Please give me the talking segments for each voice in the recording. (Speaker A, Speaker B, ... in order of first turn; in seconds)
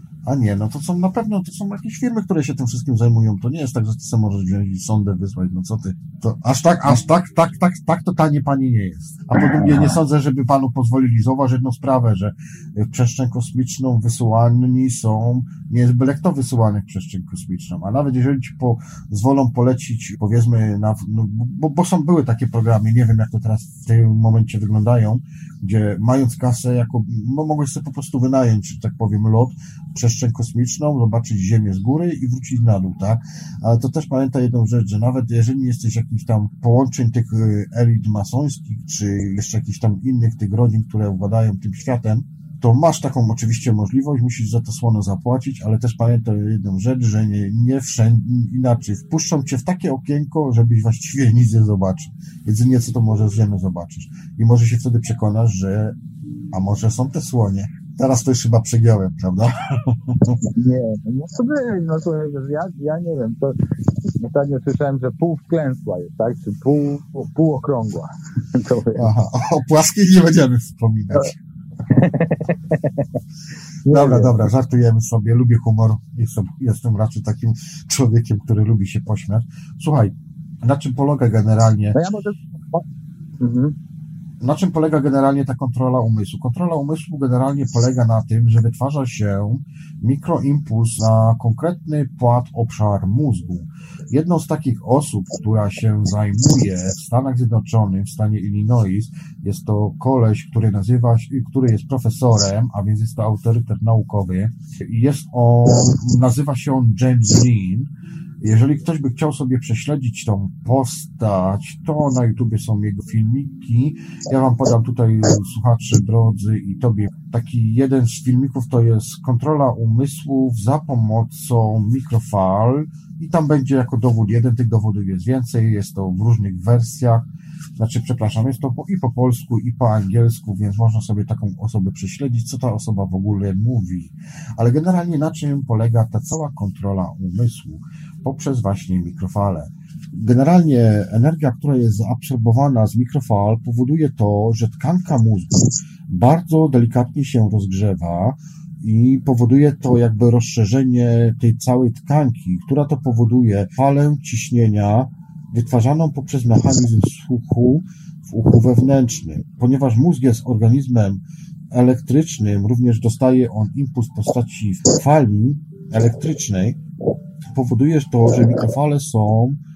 Speaker A: 0.2-56.0, 56.5-60.4, 68.9-71.3, 73.9-82.0, 84.4-107.9, 108.4-166.8, 167.5-169.6
Speaker B: 60.5-69.1, 71.9-73.1, 73.8-74.3, 81.9-82.8, 83.4-83.7